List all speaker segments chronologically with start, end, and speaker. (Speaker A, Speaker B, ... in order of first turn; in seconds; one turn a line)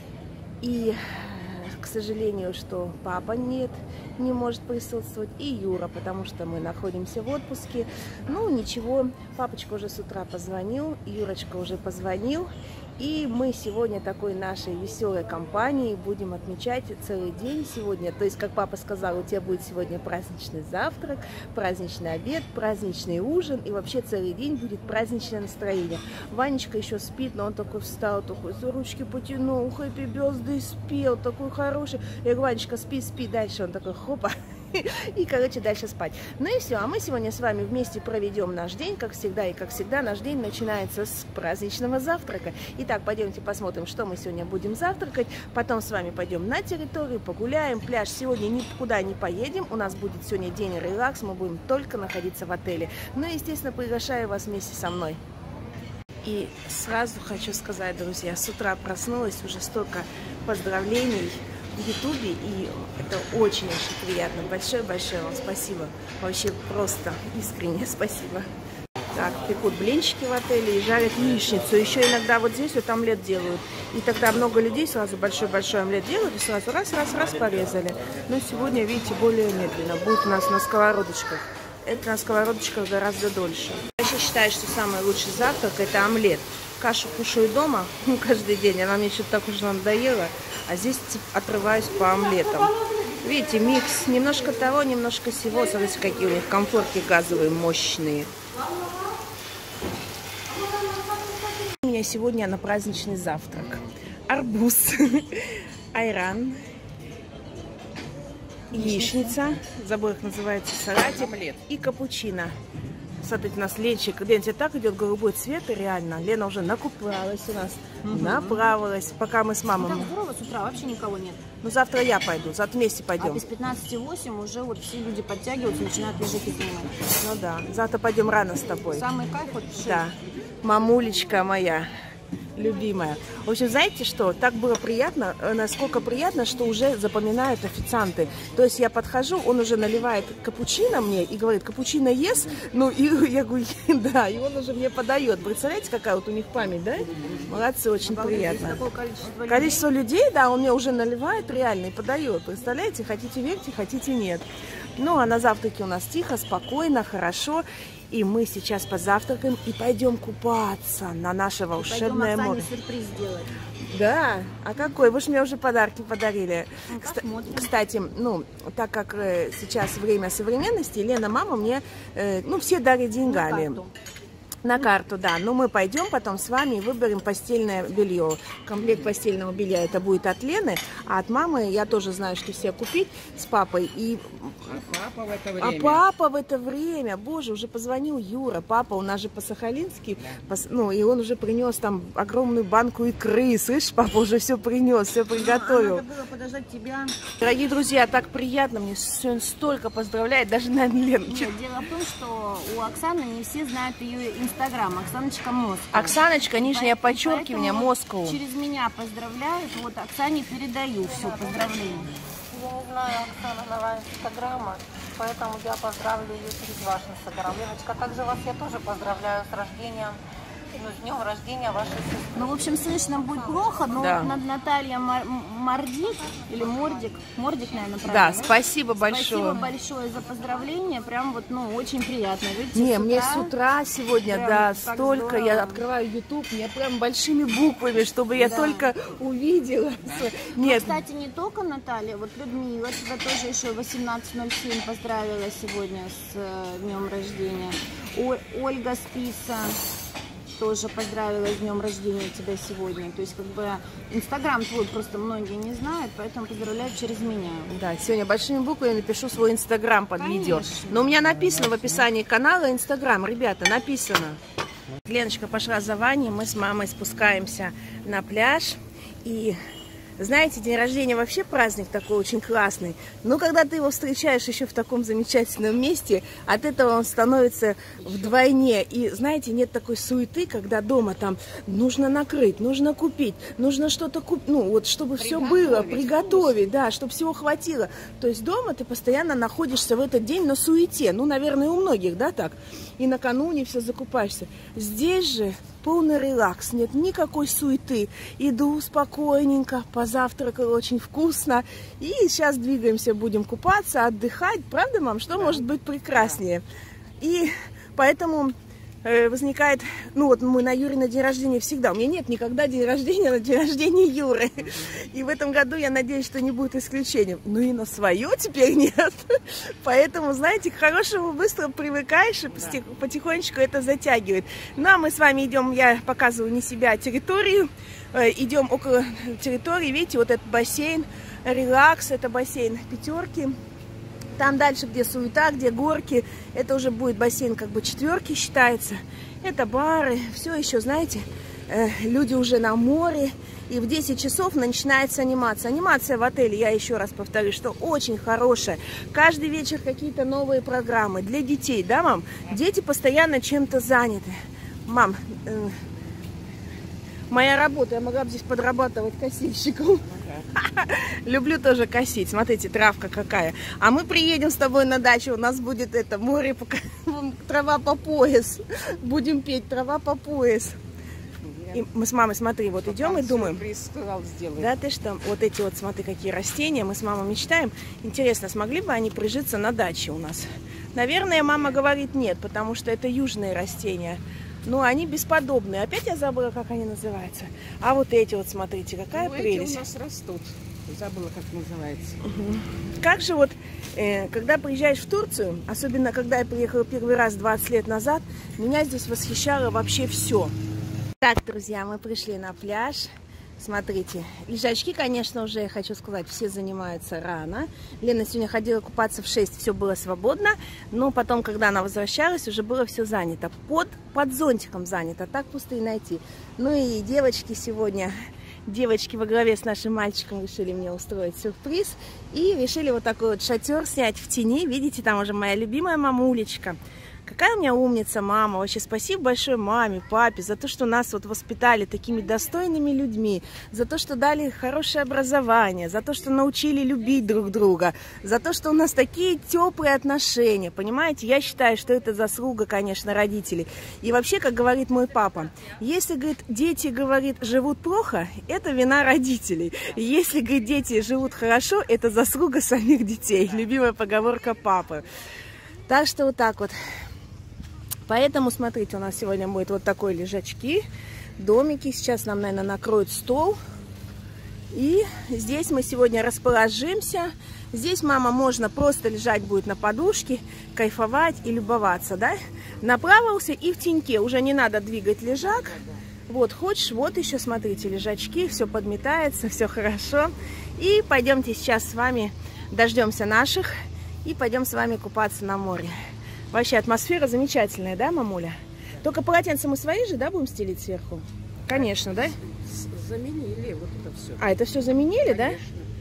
Speaker A: 0.6-55.2
Speaker A: 56.2-68.5
Speaker A: 69.1-98.3
Speaker A: 101.8-106.6
Speaker A: 108.7-112.5
Speaker B: 108.7-109.3
Speaker A: 113.2-120.1
Speaker B: 118.2-118.5
Speaker B: 119.8-121.4
Speaker A: 121.6-123.4
Speaker B: 123.2-127.0
Speaker A: 127.2-129.1
Speaker B: 128.9-130.1
Speaker A: 129.8-131.9
Speaker A: 132.6-148.8
Speaker B: 148.0-149.9
Speaker A: 149.5-154.4
Speaker A: 155.0-162.7
Speaker B: 161.8-163.5
Speaker A: 163.9-173.8
Speaker B: 166.9-167.7
Speaker B: 173.2-173.9
Speaker A: 174.6-184.8
Speaker C: 184.8-186.0
Speaker A: 185.6-196.1
Speaker B: 195.3-197.2
Speaker A: 197.4-201.5
Speaker B: 201.3-212.1
Speaker A: 205.9-208.4
Speaker D: 211.1-220.2
Speaker D: 220.8-222.8
Speaker B: 222.3-233.5
Speaker D: 223.4-223.7
Speaker A: 223.9-224.3
Speaker A: 228.1-229.6
Speaker A: 232.7-241.0
Speaker B: 234.2-235.8
Speaker B: 238.3-238.9
Speaker B: 240.2-249.8
Speaker B: 250.6-257.7
Speaker A: 257.7-264.4
Speaker B: 260.2-261.2
Speaker A: 265.1-269.6
Speaker A: 270.2-306.6
Speaker C: 285.2-286.1
Speaker A: 307.2-333.6
Speaker A: 334.4-355.8
Speaker A: 357.3-370.8
Speaker C: 371.4-371.8
Speaker A: 371.7-373.6
Speaker C: 372.9-374.7
Speaker A: 374.6-389.8
Speaker C: 389.1-392.2
Speaker A: 392.2-400.5
Speaker A: 401.2-418.1
Speaker A: 418.7-455.0
Speaker A: 455.9-456.8
Speaker A: 458.1-460.8
Speaker A: 461.4-463.6
Speaker A: 464.7-485.9
Speaker A: 486.5-492.4
Speaker C: 492.4-494.5
Speaker A: 494.4-495.6
Speaker C: 495.3-495.9